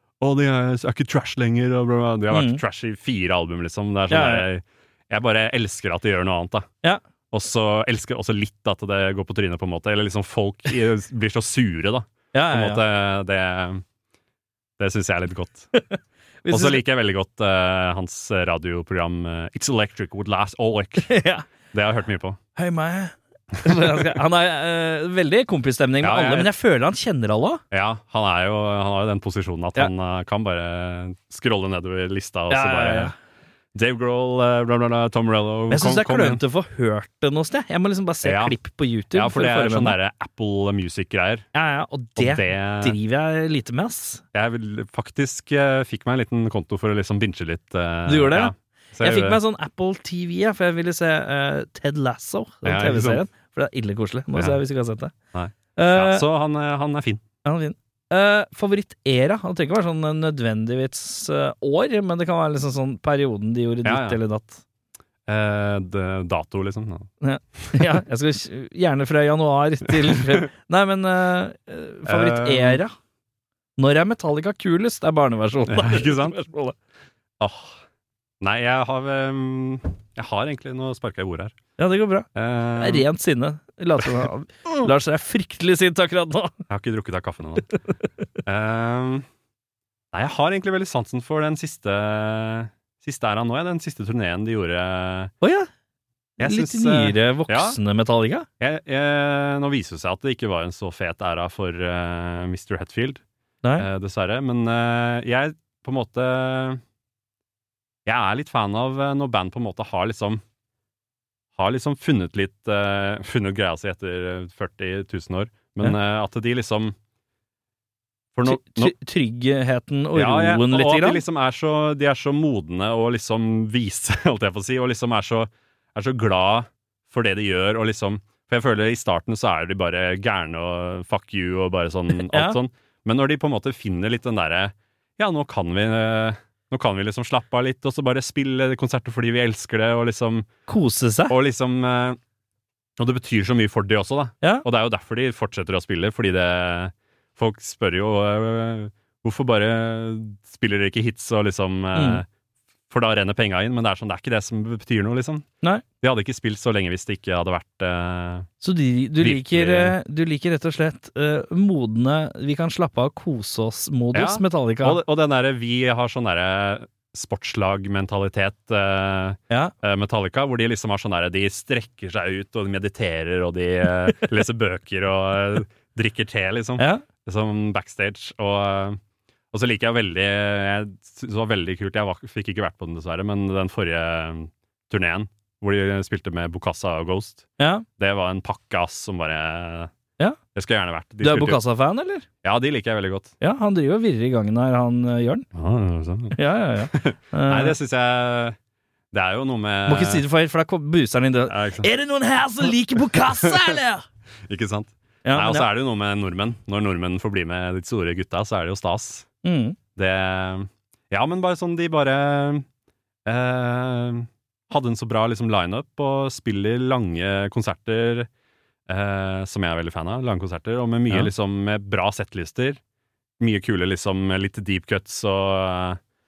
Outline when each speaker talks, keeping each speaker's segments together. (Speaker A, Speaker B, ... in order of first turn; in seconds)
Speaker A: 0.2-6.7, 7.3-13.8, 14.8-15.7, 16.5-21.1, 21.7-22.4, 26.0-26.5, 27.7-33.1, 33.7-36.4, 38.2-38.5, 39.1-41.5, 42.2-43.0, 44.3-49.4, 52.6-53.2, 55.3-57.2, 63.9-64.2, 65.3-67.1, 70.1-70.4, 72.1-72.8, 75.7-76.4, 77.4-77.8, 78.4-81.5, 82.3-83.1, 86.7-87.7, 88.4-89.2, 90.1-95.3, 96.4-97.8, 98.6-103.2, 103.8-106.8, 108.1-110.4, 111.6-117.0, 118.3-118.9, 120.1-140.5, 141.3-142.2, 143.0-152.2, 152.9-155.4, 156.0-158.5, 159.2-159.9, 164.1-179.0, 179.5-187.4, 188.0-189.9, 190.6-191.6, 192.4-193.3, 195.5-196.4, 196.9-198.6, 199.1-200.2, 201.5-201.9, 203.4-203.7, 204.5-209.3, 209.9-212.7, 213.2-218.3, 218.9-222.8, 223.4-226.0
Speaker B: 2.3-2.6, 4.1-4.5, 12.3-12.8, 15.7-16.8, 21.1-21.4, 22.6-27.6, 32.5-33.1, 35.7-39.9, 41.5-44.2, 48.0-55.1, 55.8-56.2, 57.4-64.6, 67.2-72.9, 73.8-76.8, 81.8-82.3, 82.8-86.5, 95.4-95.7, 96.4-98.5, 118.5-121.2, 132.1-132.6, 140.7-141.3, 151.9-152.2, 158.6-165.0, 176.8-177.0, 187.6-187.8, 191.2-192.2, 193.4-195.4, 196.3-197.8, 199.9-204.0, 205.2-205.7, 209.4-209.8